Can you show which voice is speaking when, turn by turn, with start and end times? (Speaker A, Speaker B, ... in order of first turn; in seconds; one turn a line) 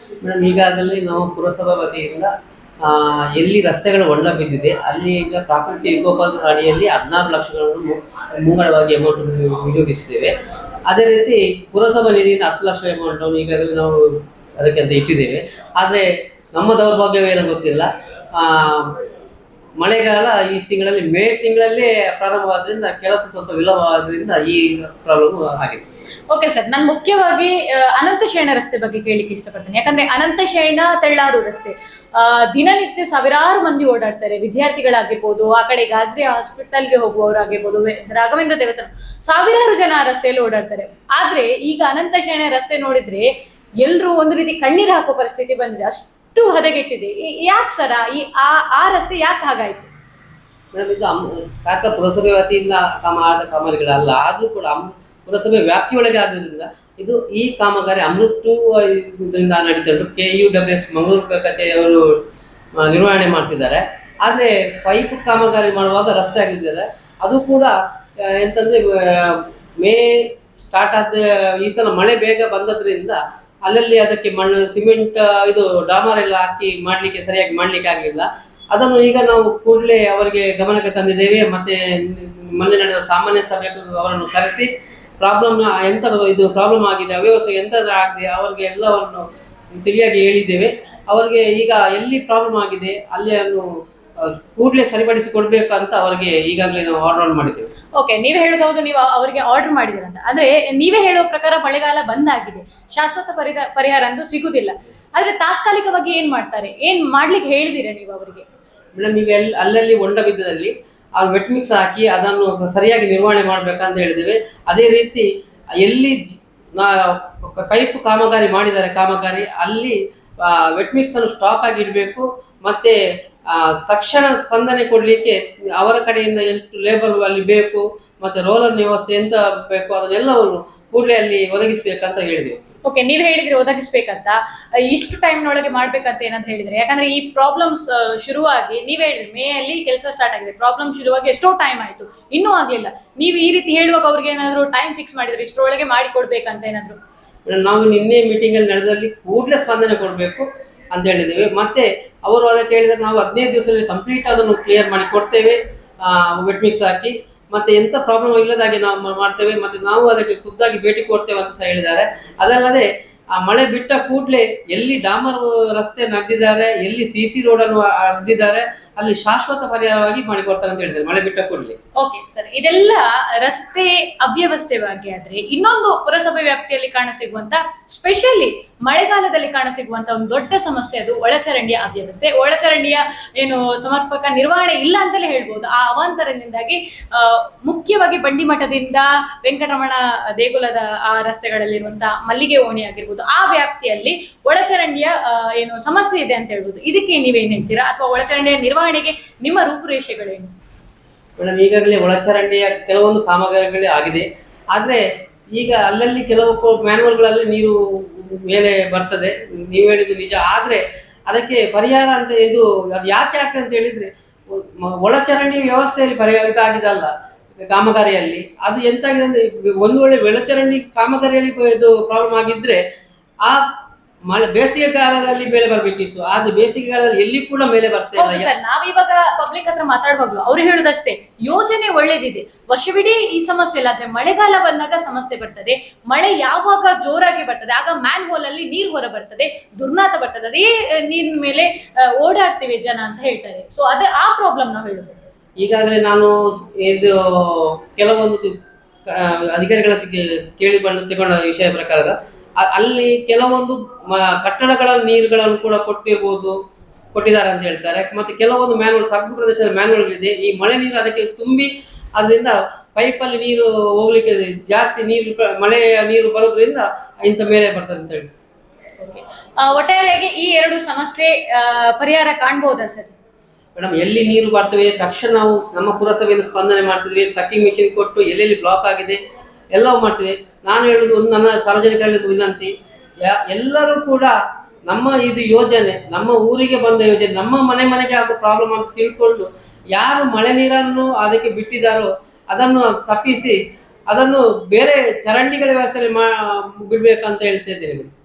Speaker A: 0.2-2.3
Speaker A: 2.8-10.3
Speaker A: 10.9-19.0
Speaker A: 19.8-25.9
Speaker B: 26.3-43.3
Speaker B: 43.8-49.9
Speaker A: 50.7-62.2
Speaker A: 62.8-84.7
Speaker A: 85.2-93.7
Speaker A: 94.2-97.7
Speaker B: 98.0-108.5
Speaker A: 109.0-115.3
Speaker A: 115.8-123.0
Speaker A: 123.5-132.6
Speaker B: 132.8-147.0
Speaker A: 147.4-171.8
Speaker B: 172.0-200.5
Speaker A: 201.4-205.0
Speaker A: 205.5-217.1
Speaker A: 217.7-222.8
Speaker A: 223.4-223.7
Speaker A: 224.3-228.5
Speaker B: 228.2-245.2
Speaker A: 245.6-248.5
Speaker A: 249.1-256.6
Speaker A: 257.1-268.3
Speaker B: 269.0-273.1
Speaker A: 273.8-279.2
Speaker A: 279.7-282.7
Speaker A: 283.2-284.3
Speaker A: 284.9-293.6
Speaker A: 294.1-298.1